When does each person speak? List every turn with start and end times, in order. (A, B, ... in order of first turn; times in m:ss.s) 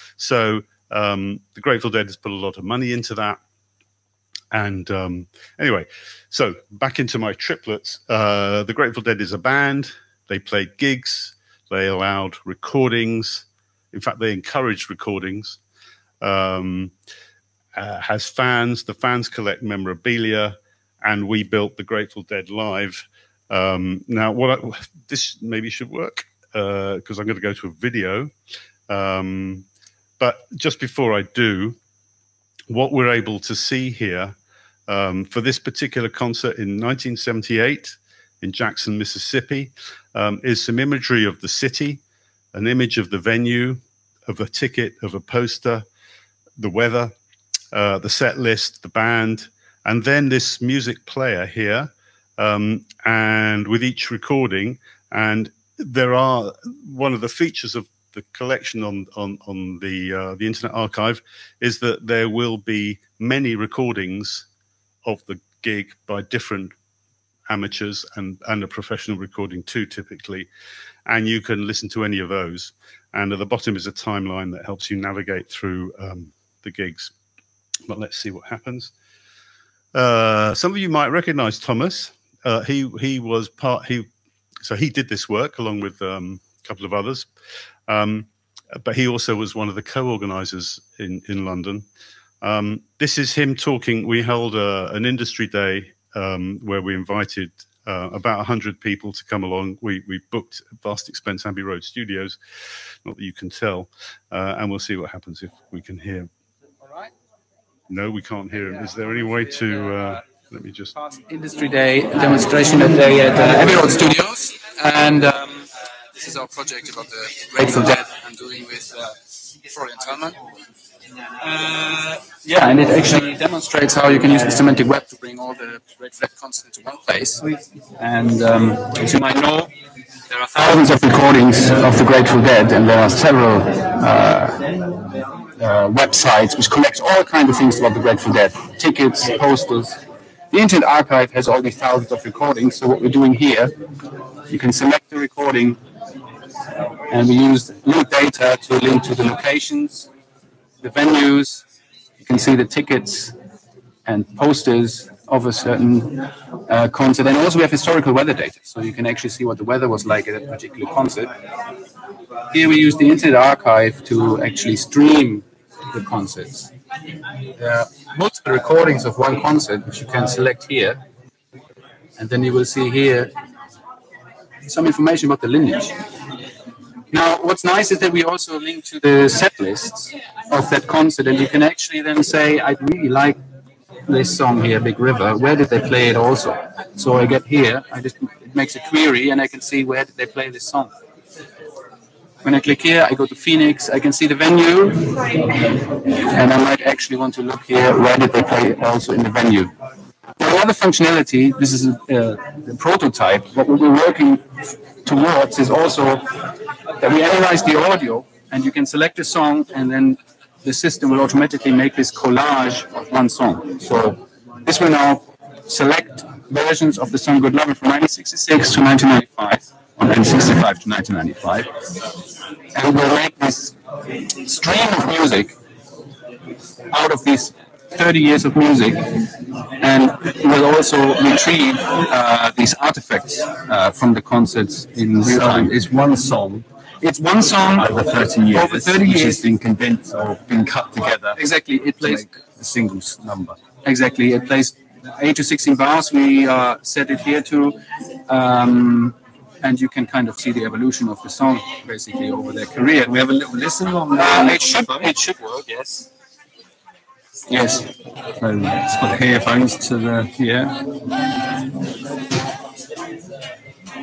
0:00.2-0:03.4 A
0:04.5-0:15.6 A
0:16.2-0:16.9 A
0:17.8-0:28.3 A
0:28.9-0:29.7 A
0:30.2-0:31.8 A
0:32.7-0:34.4 A
0:34.9-0:42.0 A
0:42.5-0:45.8 A
0:46.6-0:47.1 A
0:47.7-1:04.5 A
1:05.0-1:06.7 A
1:07.5-1:10.5 A
1:11.1-1:17.1 A
1:17.9-1:18.9 A
1:19.9-1:24.1 A
1:24.6-1:27.3 A
1:27.9-1:31.8 A
1:32.4-1:42.4 A
1:43.0-1:46.3 A
1:46.8-1:47.1 B
1:47.9-1:50.9 A
1:51.0-2:00.4 B
2:01.4-2:09.7 B
2:10.3-2:14.6 B
2:15.6-2:20.0 B
2:20.5-2:23.8 B
2:24.5-2:25.8 B
2:27.1-2:30.1 B
2:30.8-2:31.6 B
2:32.2-2:33.3 B
2:34.1-2:41.3 B
2:42.5-2:46.7 B
2:47.6-2:51.0 B
2:52.2-2:53.3 B
2:54.6-2:56.0 B
2:57.1-3:03.4 B
3:04.1-3:10.9 B
3:12.4-3:15.5 B
3:16.3-3:19.7 B
3:20.4-3:24.5 B
3:25.0-3:26.3 B
3:27.0-3:41.7 B
3:42.7-3:43.7 B
3:44.4-3:45.6 B
3:46.9-3:49.1 B
3:49.8-3:55.8 B
3:55.2-3:56.7 C
3:57.0-3:57.9 B
3:57.7-4:01.4 C
3:58.5-3:59.6 B
4:01.3-4:02.3 B
4:02.0-4:03.6 C
4:03.8-4:13.2 B
4:13.0-4:15.2 C
4:14.1-4:16.0 B
4:17.5-4:17.9 B
4:18.4-4:20.7 C